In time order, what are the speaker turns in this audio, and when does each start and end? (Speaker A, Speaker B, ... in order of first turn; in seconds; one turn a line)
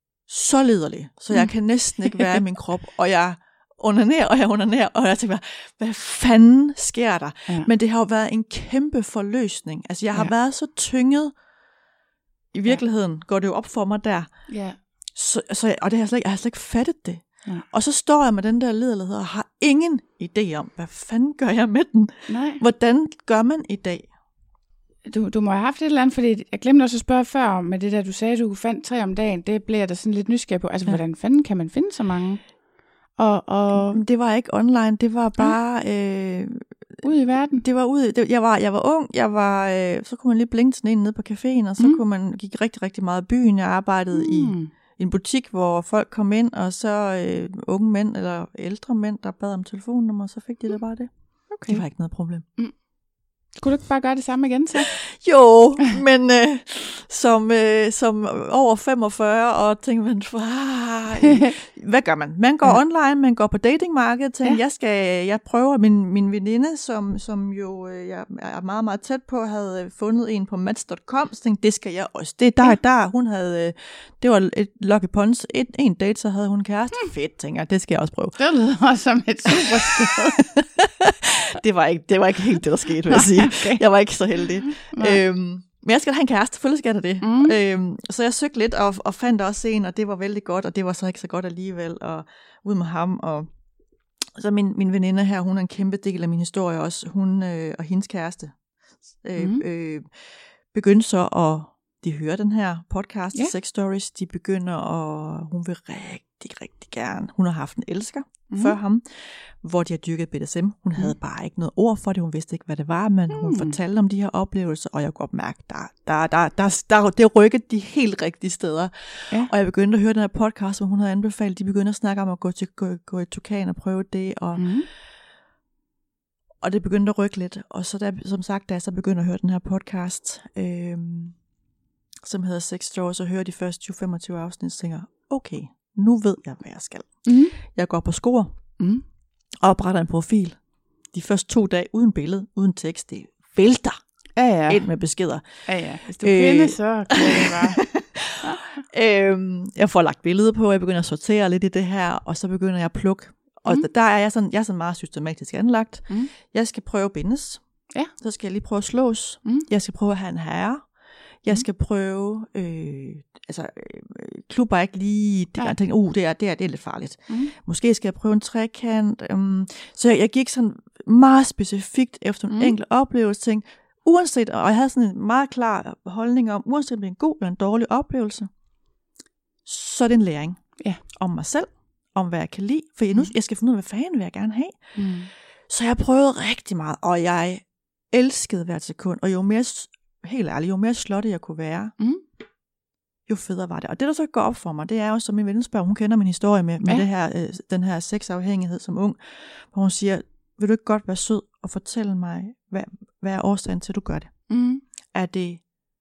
Speaker A: 0.3-11.3
Speaker B: 1.3-2.2
Speaker A: 12.5-14.6
Speaker B: 14.5-14.8
Speaker A: 15.2-24.1
Speaker B: 22.3-22.6
Speaker B: 25.1-32.5
Speaker B: 33.1-34.0
Speaker A: 33.7-37.0
Speaker B: 37.0-37.6
Speaker A: 37.6-52.4
Speaker B: 44.1-44.7
Speaker B: 51.5-51.8
Speaker B: 53.6-55.0
Speaker A: 54.8-78.4
Speaker B: 61.2-61.5
Speaker B: 78.4-80.5
Speaker A: 79.6-93.5
Speaker B: 83.1-83.8
Speaker B: 84.7-85.2
Speaker B: 87.2-87.6
Speaker A: 94.3-98.5
Speaker A: 99.2-100.1
Speaker B: 99.4-99.6
Speaker A: 100.7-124.7
Speaker B: 108.5-108.8
Speaker B: 113.3-113.8
Speaker B: 124.6-124.9
Speaker A: 126.6-131.4
Speaker A: 132.2-138.5
Speaker B: 137.2-137.6
Speaker B: 138.8-139.0
Speaker A: 139.6-144.0
Speaker B: 144.4-144.9
Speaker A: 144.7-178.5
Speaker B: 145.7-147.8
Speaker A: 179.7-184.9
Speaker B: 184.9-185.3
Speaker A: 185.7-191.9
Speaker A: 193.3-204.5
Speaker B: 204.5-204.8
Speaker A: 205.1-205.7